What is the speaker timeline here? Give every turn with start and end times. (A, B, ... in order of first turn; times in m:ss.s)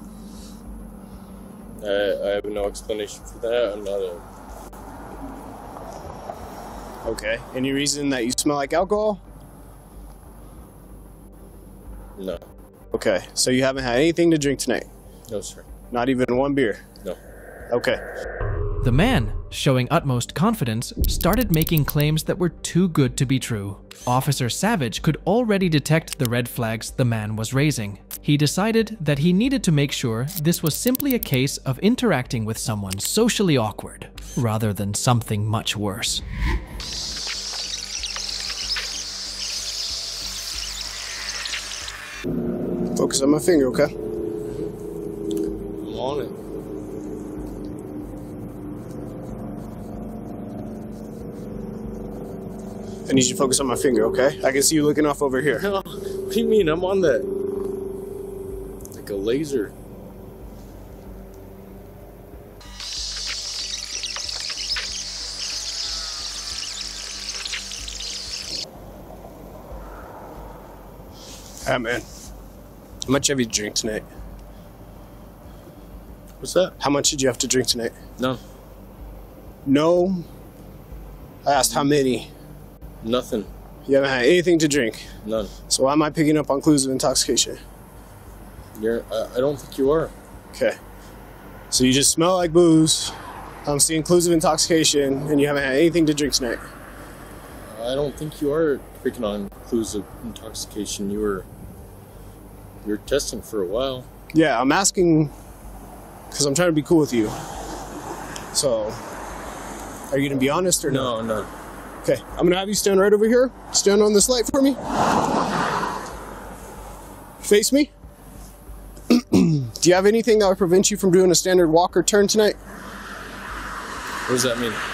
0:01.8-0:04.2 A
0:07.0-0:09.2 B
0:12.2-0:12.4 A
0:12.9-0:14.9 B
0:15.3-0:15.7 A
0:15.9-0:16.8 B
0:17.7-0:18.0 B
0:18.8-0:36.2 C
0:42.9-0:43.9 B
0:45.8-0:46.4 A
0:53.1-0:55.6 B
0:55.5-0:57.3 A
0:58.9-0:59.7 A
1:11.6-1:12.1 B
1:13.1-1:14.0 B
1:16.4-1:16.8 A
1:16.8-1:18.0 B
1:19.6-1:20.3 B
1:21.4-1:22.3 B
1:23.0-1:23.5 A
1:23.9-1:25.0 B
1:25.2-1:25.5 A
1:25.7-1:27.6 B
1:28.8-1:30.1 A
1:31.7-1:33.1 B
1:33.6-1:36.6 B
1:37.7-1:41.4 A
1:42.8-1:44.1 A
1:44.3-1:45.3 B
1:46.3-1:47.4 B
1:48.5-1:49.0 B
1:50.1-1:51.1 B
1:50.9-1:51.5 A
1:52.0-1:54.8 B
1:57.4-1:57.9 B
1:59.1-2:02.6 B
2:04.3-2:04.8 A